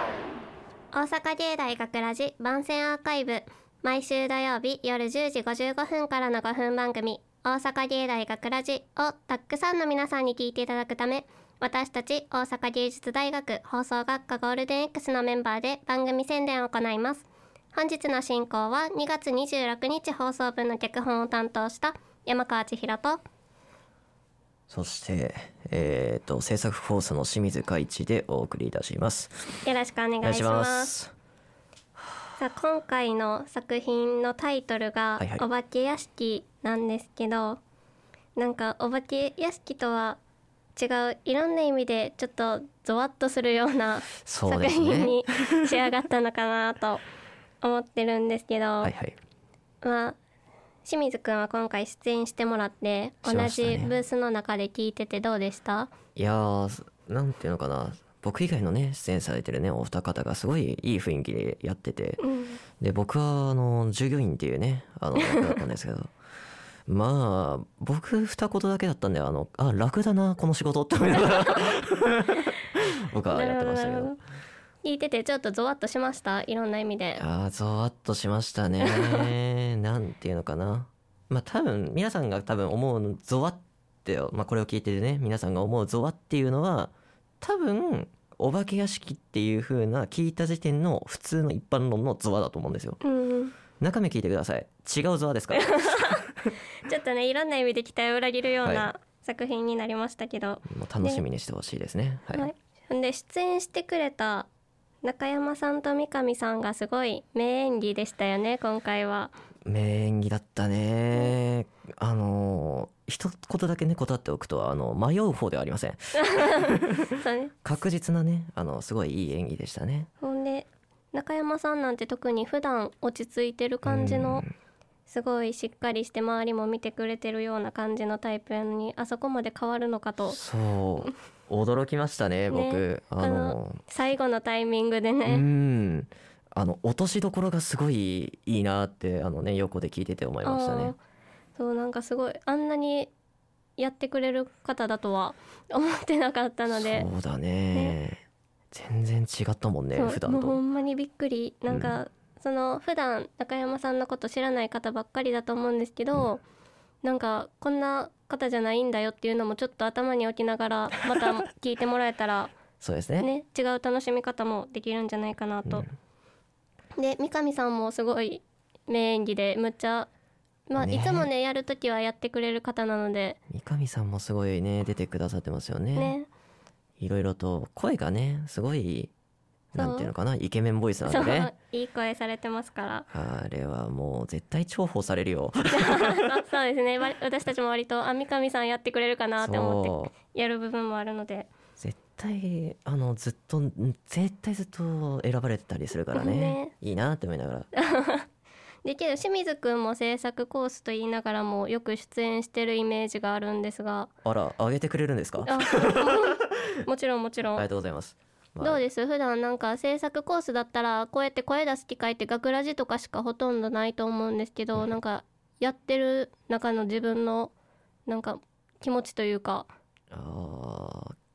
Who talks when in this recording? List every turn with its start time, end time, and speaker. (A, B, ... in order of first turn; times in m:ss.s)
0:00.9-0:23.2 A
0:24.7-0:29.6 B
0:29.6-0:30.9 A
0:30.2-0:31.1 B
0:32.4-0:37.6 A
0:35.2-0:35.4 B
0:38.4-0:40.2 A
0:40.8-0:47.0 A
0:44.2-0:45.5 B
0:47.6-0:48.9 A
0:48.8-0:49.1 B
0:49.8-0:50.2 A
0:50.8-0:55.9 A
0:53.2-0:53.9 B
0:56.2-1:02.2 B
1:02.2-1:02.6 A
1:02.8-1:06.1 B
1:05.2-1:05.5 A
1:06.9-1:12.5 B
1:13.1-1:14.1 B
1:13.3-1:14.2 A
1:14.8-1:17.2 A
1:17.2-1:33.0 B
1:18.8-1:19.3 A
1:33.0-1:33.5 A
1:33.8-1:36.2 B
1:35.5-1:36.2 A
1:36.8-1:41.2 A
1:40.6-1:42.5 B
1:42.3-1:44.5 A
1:45.0-1:49.3 A
1:49.6-1:57.0 B
1:56.2-1:57.5 A
1:57.6-2:00.1 B
2:00.2-2:04.5 A
2:03.8-2:04.5 B
2:05.1-2:10.4 A
2:10.2-2:13.8 B
2:12.5-2:15.4 A
2:15.2-2:20.9 B
2:20.4-2:21.0 A
2:21.6-2:23.1 A
2:23.8-2:27.1 A
2:26.7-2:30.6 B
2:29.9-2:36.4 A
2:31.7-2:32.0 B
2:37.0-2:42.5 A
2:42.8-2:43.3 B
2:43.2-2:45.9 A
2:47.0-2:50.1 A
2:50.7-2:53.4 A
2:50.8-2:51.3 B
2:53.5-2:56.1 B
2:56.0-2:56.3 A
2:57.0-2:59.1 B
2:59.7-3:01.5 B
2:59.8-3:00.1 A
3:01.0-3:03.1 A
3:03.1-3:06.2 B
3:05.7-3:11.5 A
3:09.4-3:10.1 B
3:11.8-3:17.7 B
3:16.1-3:16.7 A
3:17.8-3:18.2 A
3:18.8-3:24.1 A
3:24.2-3:26.0 B
3:25.4-3:27.6 A
3:27.5-3:28.8 B
3:28.6-3:37.5 A
3:38.1-3:39.7 A
3:40.1-3:41.1 B